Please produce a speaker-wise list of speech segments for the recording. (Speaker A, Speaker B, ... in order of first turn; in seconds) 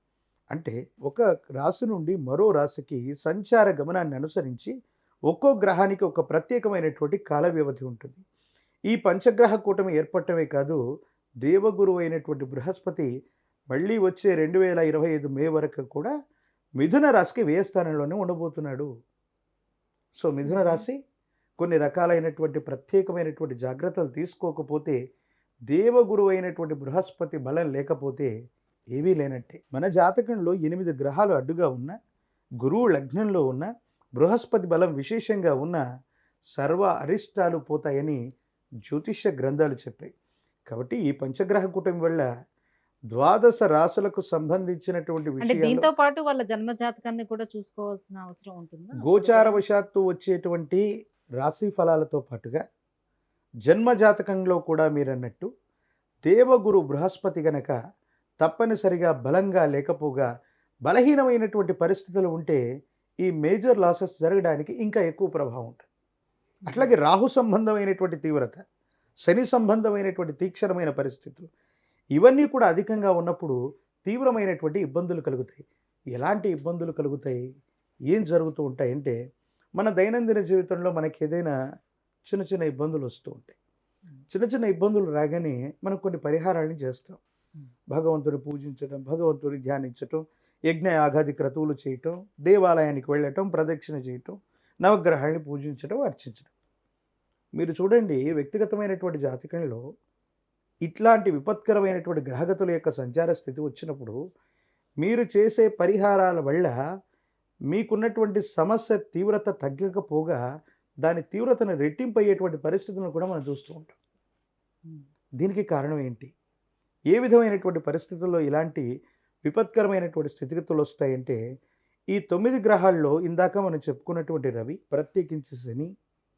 Speaker A: 0.5-4.7, 5.3-8.2, 8.9-10.8, 11.4-13.1, 13.7-16.1, 16.8-18.9, 20.2-21.0, 21.6-25.0, 25.7-28.3, 28.9-31.9, 32.6-35.8, 36.5-38.2, 38.8-40.1, 40.7-42.2, 43.1-45.9, 49.0-50.8, 51.4-52.6, 53.6-55.5, 56.2-57.7, 58.4-60.3, 60.8-62.6, 63.2-65.8, 66.7-68.6, 69.2-71.5, 72.2-77.4, 78.1-79.1, 79.8-81.5, 82.2-83.6, 84.3-87.2, 87.9-96.5, 97.5-99.8, 100.8-104.2, 105.0-106.7, 107.7-110.4, 111.0-113.9, 115.4-116.3, 117.1-118.8, 119.4-121.4, 122.1-125.9
Speaker B: 20.4-20.8, 45.4-49.6, 66.6-66.9